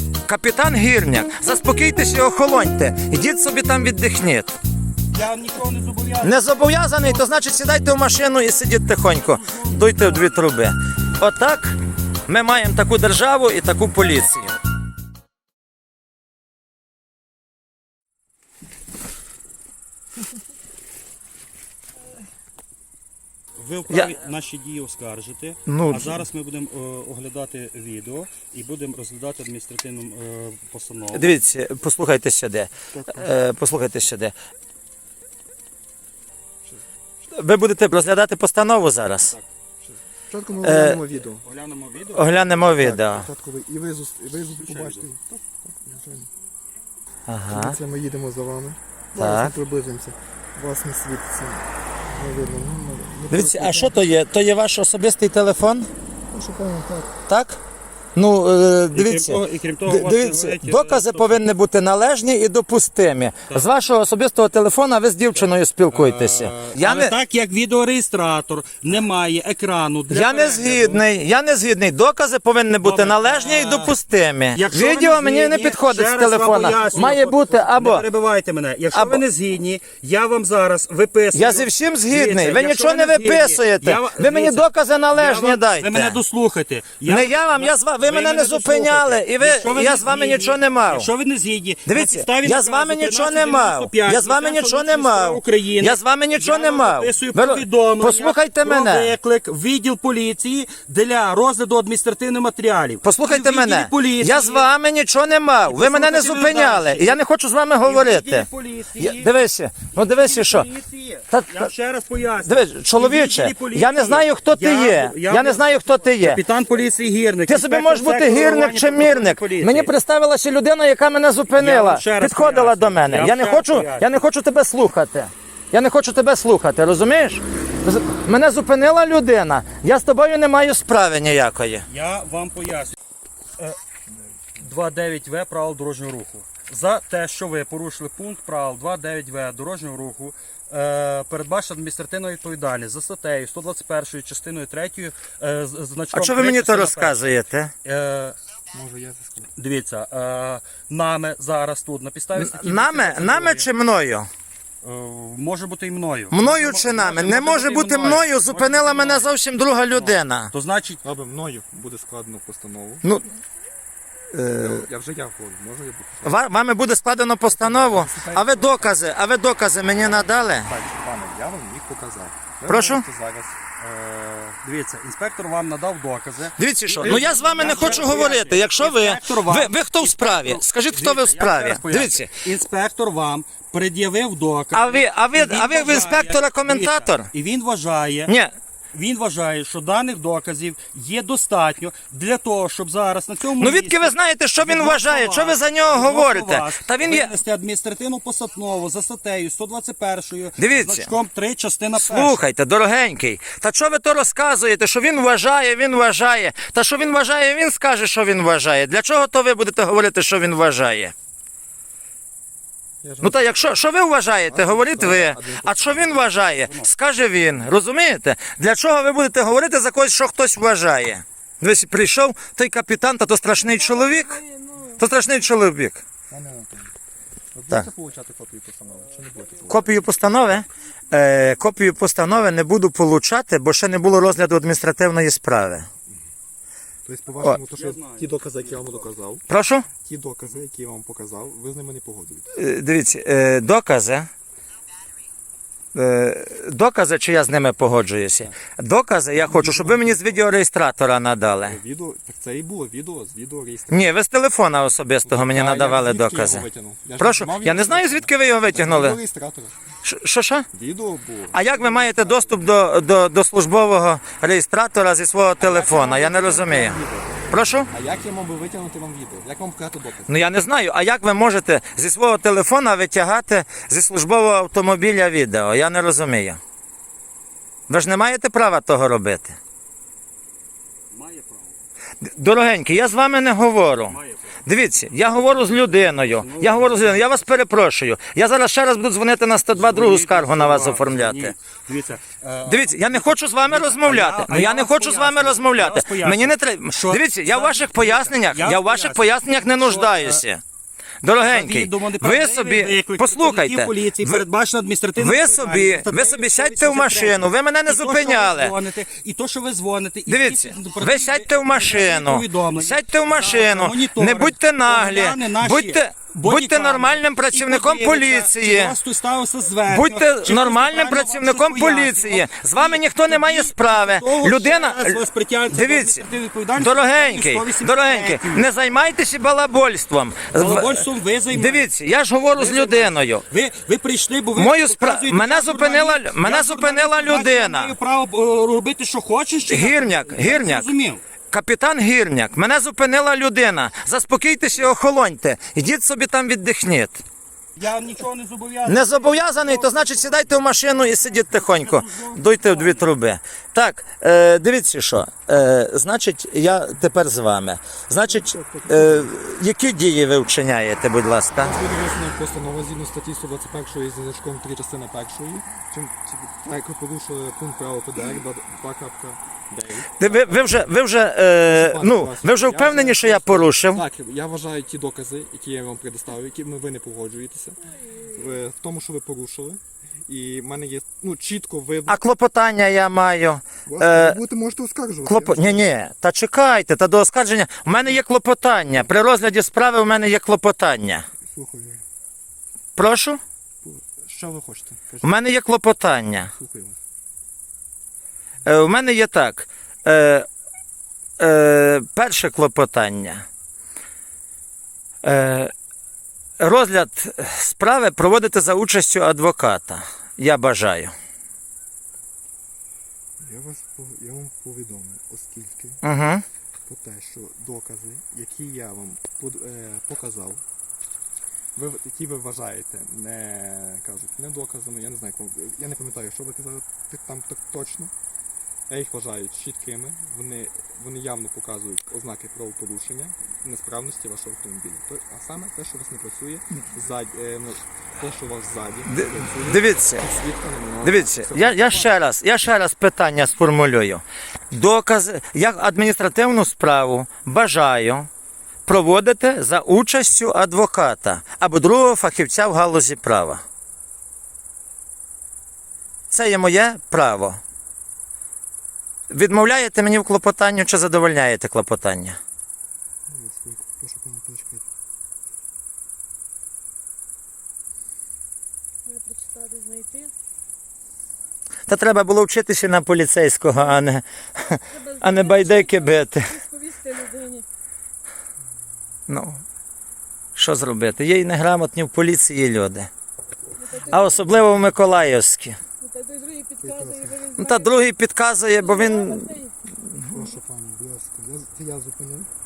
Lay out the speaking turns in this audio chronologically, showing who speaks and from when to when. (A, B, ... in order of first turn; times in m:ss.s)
0:00.2-0:04.6 A
0:05.1-0:07.4 B
0:06.2-0:11.8 A
0:09.2-0:10.4 B
0:12.3-0:14.6 A
0:23.6-0:31.4 B
0:25.7-0:26.2 A
0:31.1-0:34.4 A
0:32.9-0:33.3 C
0:37.3-0:39.4 A
0:39.8-0:41.4 C
0:40.6-0:41.0 A
0:41.2-0:42.6 B
0:42.1-0:43.3 A
0:42.6-0:46.3 C
0:44.6-0:45.0 B
0:47.3-0:47.8 A
0:47.5-0:54.0 C
0:49.2-0:49.6 A
0:53.3-0:55.9 A
0:56.3-0:57.2 C
0:57.3-0:57.6 A
0:58.2-1:07.2 A
0:58.9-1:01.4 B
1:05.9-1:11.0 B
1:10.1-1:18.0 A
1:12.8-1:13.9 B
1:14.5-1:44.7 B
1:18.9-1:19.2 A
1:21.3-1:26.2 A
1:27.1-1:31.1 A
1:31.9-1:39.2 A
1:43.0-1:48.5 A
1:45.6-1:47.2 B
1:47.8-1:49.3 B
1:49.0-1:50.7 A
1:49.9-1:59.9 B
1:51.3-1:51.7 A
1:52.4-1:56.4 A
1:57.5-2:11.9 A
2:01.5-2:04.1 B
2:11.9-2:13.0 B
2:14.6-2:27.3 B
2:26.1-2:27.7 A
2:27.8-2:28.4 B
2:28.7-2:29.5 C
2:29.6-2:33.7 B
2:32.4-2:34.3 A
2:34.8-2:39.4 B
2:36.3-2:40.5 A
2:39.9-2:41.0 B
2:41.0-2:43.0 C
2:44.3-2:44.9 A
2:44.5-2:46.4 C
2:46.2-2:50.7 A
2:47.5-2:49.0 C
2:50.6-2:53.6 C
2:52.7-2:53.0 A
2:53.8-3:08.3 B
2:56.6-3:02.4 A
3:04.7-3:07.3 A
3:08.3-3:08.6 A
3:08.9-3:22.4 B
3:13.6-3:17.3 A
3:20.6-3:21.1 A
3:22.0-3:31.1 A
3:33.0-3:33.9 C
3:33.2-3:44.4 A
3:34.4-3:36.5 C
3:36.6-3:36.9 B
3:43.7-3:45.0 D
3:44.9-3:46.0 A
3:46.3-3:46.9 C
3:47.6-3:50.1 C
3:49.7-3:55.9 A
3:57.0-3:59.4 C
3:57.7-3:58.9 B
3:59.5-3:59.9 A
4:00.0-4:02.6 C
4:02.6-4:04.3 A
4:05.9-4:11.8 A
4:09.4-4:10.4 C
4:11.6-4:14.1 C
4:13.9-4:16.7 A
4:15.2-4:19.8 C
4:17.2-4:19.2 A
4:20.0-4:20.7 A
4:20.7-4:22.5 C
4:21.5-4:27.0 A
4:25.6-4:26.1 B
4:26.1-4:30.4 C
4:27.5-4:27.9 A
4:30.3-4:36.6 A
4:37.9-4:39.6 A
4:41.1-4:41.8 B
4:42.2-4:51.5 A
4:44.1-4:44.6 B
4:46.1-4:47.4 B
4:49.7-5:00.4 B
4:52.7-5:00.6 A
5:01.2-5:04.4 A
5:01.4-5:28.7 B
5:05.2-5:08.8 A
5:10.3-5:19.0 A
5:19.9-5:31.0 A
5:30.5-5:31.9 B
5:31.5-5:33.4 A
5:32.5-5:41.2 B
5:34.6-5:38.0 A
5:39.7-5:40.9 A
5:41.5-5:47.2 A
5:47.8-5:53.1 B
5:48.9-6:01.8 A
5:58.2-5:59.3 C
6:01.6-6:10.9 C
6:10.2-6:14.0 A
6:11.6-6:22.2 C
6:22.1-6:24.4 A
6:23.8-6:25.9 C
6:25.2-6:31.3 A
6:31.4-6:32.0 C
6:33.0-6:33.4 A
6:33.8-6:35.4 C
6:35.2-6:36.5 A
6:36.6-6:37.0 C
6:38.7-6:40.5 A
6:41.4-6:43.4 A
6:45.2-6:45.7 A
6:46.6-6:51.1 A
6:53.4-6:56.0 C
6:56.0-6:56.4 A
6:56.9-7:00.6 C
7:01.8-7:08.1 C
7:08.9-7:22.2 C
7:19.1-7:20.2 A
7:21.0-7:28.3 A
7:28.9-7:33.6 A
7:36.3-7:37.6 A
7:39.3-7:42.4 A
7:43.3-7:44.8 C
7:49.1-7:50.3 D
7:51.9-7:56.6 A
7:55.0-7:57.6 D
7:59.3-7:59.6 A
8:00.6-8:03.1 A
8:03.8-8:04.4 D
8:04.0-8:05.8 A
8:04.4-8:04.9 C
8:06.0-8:07.9 D
8:06.8-8:07.6 C
8:07.6-8:09.6 A
8:08.8-8:09.7 D
8:10.3-8:12.5 C